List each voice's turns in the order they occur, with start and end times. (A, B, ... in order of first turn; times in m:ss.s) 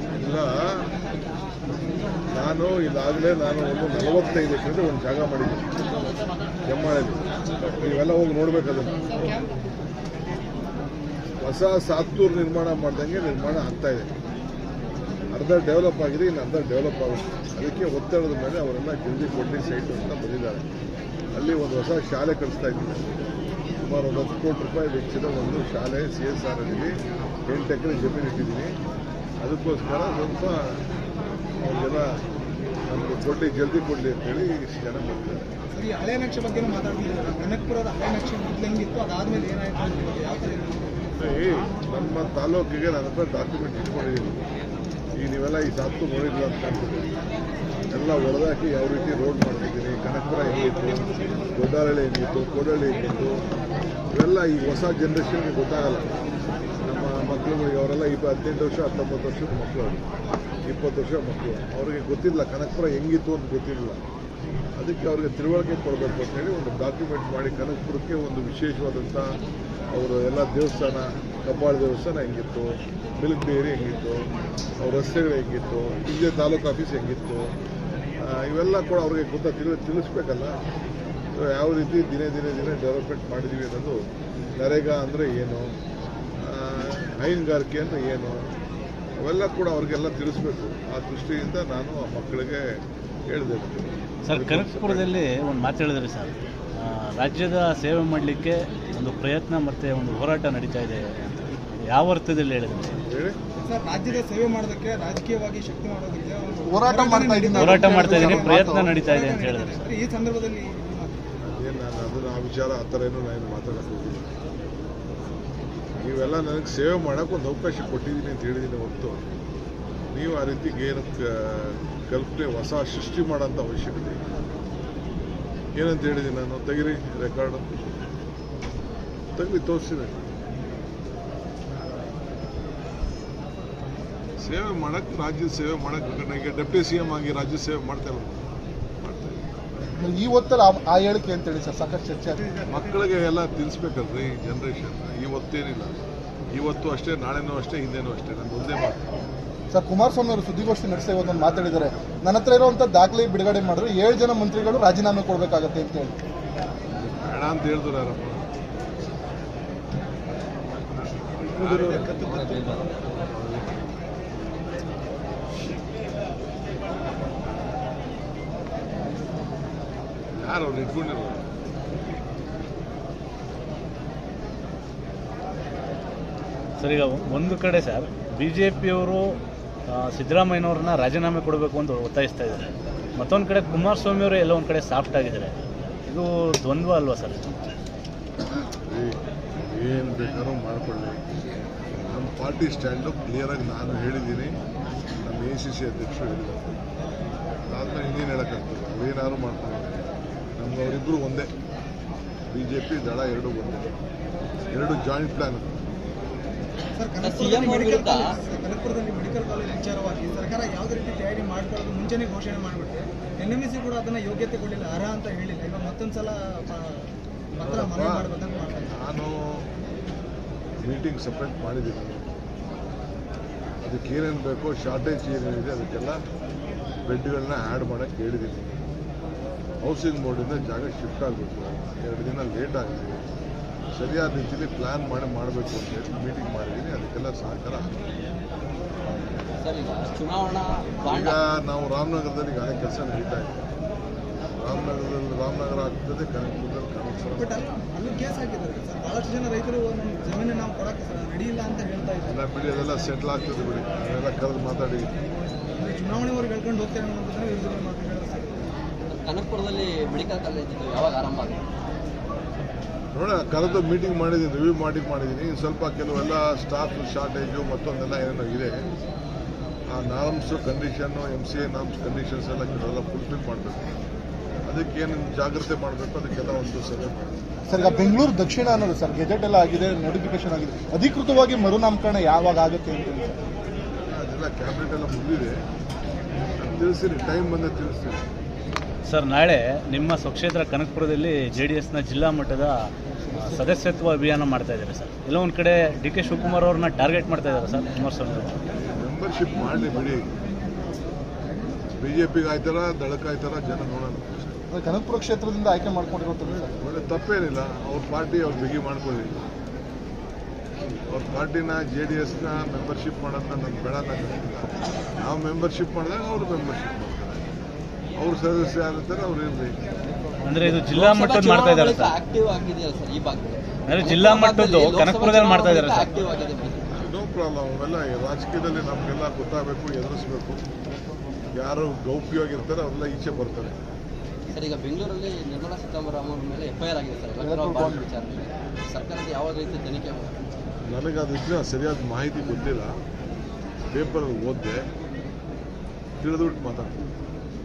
0:00.2-0:00.8 A
0:02.3-0:05.7 A
0:06.6-0:09.4 A
0:11.4-0:14.1 A
0:15.3-0:20.6 A
0:21.3-0:23.1 A
0:23.8-0:26.9 A
0:27.5-0:28.7 A
0:29.4-0:30.6 A
0:31.6-0:32.1 A
0:32.9-0:35.5 A
0:35.7-0:40.9 B
0:41.2-0:44.4 A
0:45.2-0:47.1 A
0:47.9-0:53.4 A
0:54.1-0:56.1 A
0:56.8-1:00.0 A
1:00.7-1:04.0 A
1:04.8-1:09.4 A
1:09.9-1:14.2 A
1:14.8-1:17.5 A
1:18.2-1:20.6 A
1:21.3-1:24.0 A
1:24.6-1:25.7 A
1:26.4-1:28.4 A
1:29.2-1:32.7 A
1:33.3-1:35.1 A
1:34.2-1:43.0 C
1:43.0-1:43.4 A
1:43.6-1:51.2 B
1:46.7-1:48.9 D
1:47.6-1:49.8 C
1:51.4-1:54.3 A
1:56.0-1:59.2 A
2:00.1-2:04.3 A
2:05.8-2:07.7 A
2:09.4-2:10.1 A
2:14.4-2:18.4 A
2:19.0-2:19.4 A
2:20.0-2:22.5 D
2:22.7-2:26.0 A
2:26.5-2:29.0 A
2:29.7-2:36.1 D
2:37.0-2:38.4 A
2:41.5-2:43.8 A
2:41.6-2:42.9 E
2:50.4-2:51.4 A
2:56.8-2:59.4 C
2:59.9-3:05.6 C
3:06.1-3:07.5 C
3:08.8-3:11.2 A
3:12.0-3:14.5 A
3:15.2-3:16.8 A
3:17.7-3:19.9 A
3:20.6-3:21.5 A
3:22.5-3:23.9 A
3:24.7-3:25.8 A
3:26.9-3:38.9 B
3:27.2-3:28.2 E
3:37.6-3:38.2 A
3:38.9-3:39.6 A
3:40.8-3:42.2 A
3:43.8-3:46.2 A
3:47.0-3:48.8 A
3:49.8-3:53.2 A
3:53.9-3:58.0 A
3:59.1-3:59.5 A
3:59.6-4:01.4 E
4:01.1-4:03.6 A
4:04.6-4:07.6 A
4:07.4-4:12.4 B
4:12.3-4:15.1 A
4:15.7-4:18.6 B
4:19.1-4:21.6 E
4:23.1-4:28.8 A
4:29.9-4:33.8 A
4:34.6-4:37.4 A
4:37.7-4:43.4 D
4:37.8-4:38.2 B
4:44.1-4:45.6 A
4:46.6-4:48.2 A
4:49.1-4:52.9 C
4:53.4-4:58.6 C
4:58.8-5:00.2 A
5:02.0-5:04.6 A
5:04.7-5:06.8 D
5:06.8-5:09.4 A
5:11.1-5:17.4 A
5:18.2-5:19.8 A
5:20.4-5:22.1 C
5:20.6-5:26.9 E
5:23.9-5:26.1 C
5:26.9-5:30.6 A
5:31.5-5:33.7 A
5:34.5-5:40.3 E
5:37.4-5:38.0 D
5:40.9-5:42.9 A
5:43.9-5:44.8 A
5:46.2-5:47.0 A